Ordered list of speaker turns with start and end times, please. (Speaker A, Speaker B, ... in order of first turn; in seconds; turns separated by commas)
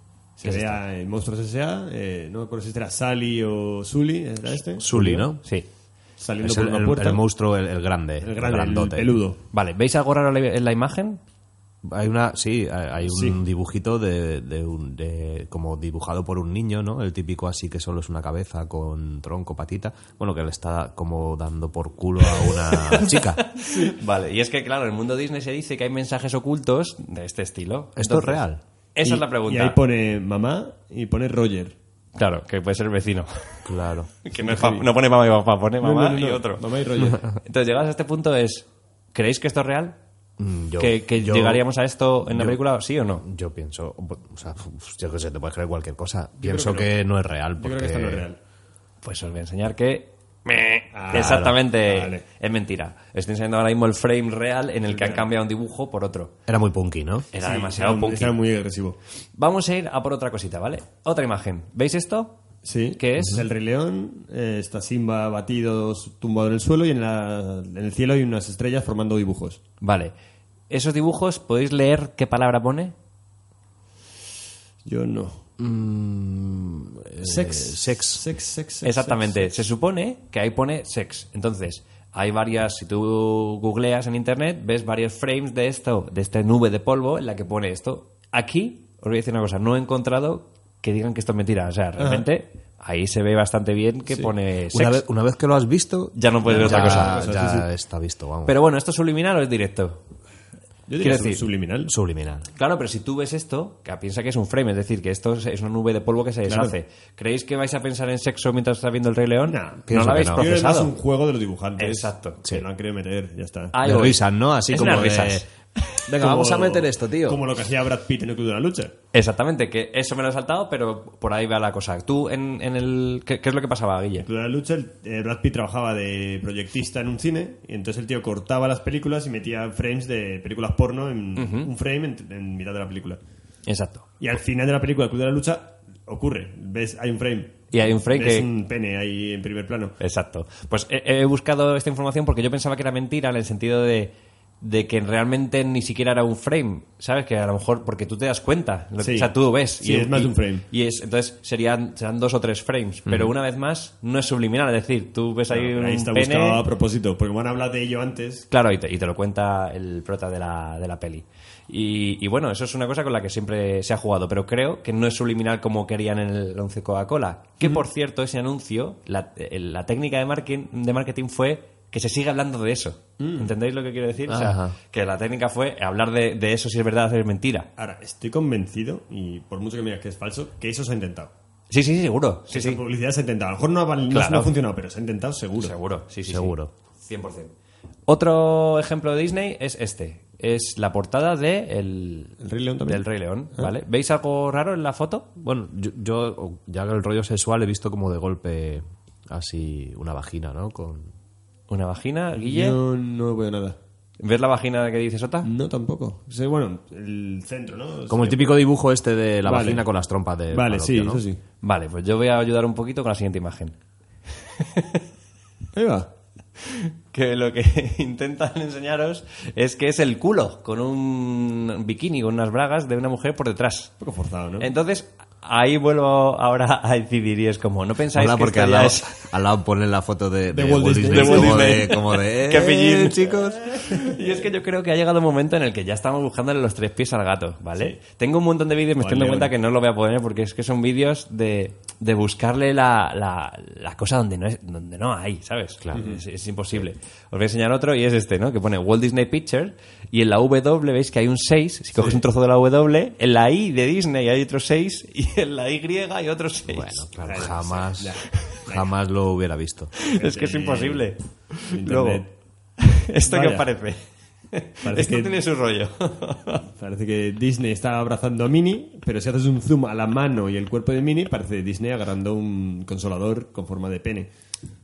Speaker A: 0.4-5.3, Speaker B: 0.4-0.8, Speaker C: 4.8-5.4, Speaker A: 6.2-7.2, Speaker C: 6.4-9.2, Speaker A: 8.2-9.4, Speaker B: 9.5-11.2, Speaker C: 11.8-23.4, Speaker A: 13.1-13.4, Speaker B: 22.5-28.4, Speaker A: 23.6-23.9, Speaker C: 28.0-28.6, Speaker B: 28.9-29.8, Speaker A: 29.0-31.8, Speaker B: 32.2-33.7, Speaker C: 33.6-34.1, Speaker B: 34.2-36.6, Speaker A: 34.4-34.9, Speaker A: 35.8-37.2, Speaker B: 37.3-40.0, Speaker C: 40.4-41.6, Speaker B: 40.8-43.2, Speaker C: 42.3-42.6, Speaker C: 43.2-48.3, Speaker A: 46.4-47.0, Speaker A: 47.6-48.4, Speaker B: 49.0-56.3, Speaker A: 50.9-52.2, Speaker C: 51.1-51.6, Speaker A: 54.9-55.3, Speaker C: 56.5-57.3, Speaker B: 57.3-58.4, Speaker A: 57.4-59.0, Speaker B: 59.4-62.4, Speaker A: 62.6-69.6, Speaker B: 63.0-63.4, Speaker C: 63.2-63.5, Speaker B: 69.8-70.1, Speaker B: 70.7-73.0, Speaker A: 74.8-75.5, Speaker C: 75.6-78.2, Speaker A: 77.2-79.6, Speaker B: 78.8-95.0, Speaker A: 92.0-92.3, Speaker C: 94.7-98.5, Speaker B: 96.2-97.2, Speaker A: 96.5-97.7, Speaker B: 98.5-100.0, Speaker A: 100.9-101.9, Speaker B: 101.0-101.4, Speaker C: 101.9-102.5, Speaker B: 102.5-110.9, Speaker A: 106.5-106.8, Speaker A: 109.5-113.8, Speaker C: 109.9-110.5, Speaker B: 111.8-112.4, Speaker B: 113.7-115.5, Speaker C: 113.8-115.5, Speaker C: 116.1-117.4, Speaker A: 116.2-118.9, Speaker B: 119.1-124.3, Speaker A: 124.2-133.2, Speaker B: 131.4-131.7, Speaker B: 133.7-134.1, Speaker A: 134.2-140.0, Speaker B: 137.7-138.5, Speaker B: 140.0-156.6, Speaker A: 149.0-150.7, Speaker C: 153.1-153.3, Speaker A: 155.5-158.5, Speaker B: 158.5-177.7, Speaker A: 173.2-173.5, Speaker C: 174.3-174.8, Speaker A: 177.8-181.3, Speaker B: 181.7-182.8, Speaker A: 182.5-185.8, Speaker B: 184.1-184.5, Speaker B: 185.6-187.5, Speaker C: 186.3-186.7, Speaker B: 188.1-195.3, Speaker A: 192.4-193.7, Speaker C: 195.4-201.1, Speaker B: 201.7-202.8, Speaker A: 202.4-203.8, Speaker B: 204.2-205.5, Speaker A: 205.4-208.5, Speaker C: 208.1-211.2, Speaker A: 209.5-209.9, Speaker A: 210.5-211.4, Speaker B: 211.6-213.8, Speaker B: 214.6-215.0, Speaker A: 215.7-216.1, Speaker B: 216.6-223.9, Speaker A: 224.0-224.7, Speaker B: 224.6-229.1, Speaker C: 228.1-233.6, Speaker A: 230.5-231.9, Speaker B: 231.0-257.1, Speaker A: 234.0-234.4, Speaker A: 239.0-239.5, Speaker C: 245.8-246.1, Speaker A: 245.9-246.2, Speaker A: 252.0-252.2, Speaker C: 256.7-259.9, Speaker A: 257.2-258.9, Speaker B: 260.0-262.2, Speaker A: 260.1-261.1, Speaker A: 261.6-262.3, Speaker B: 262.8-266.6, Speaker A: 263.3-263.7, Speaker A: 264.8-265.4, Speaker A: 266.7-274.3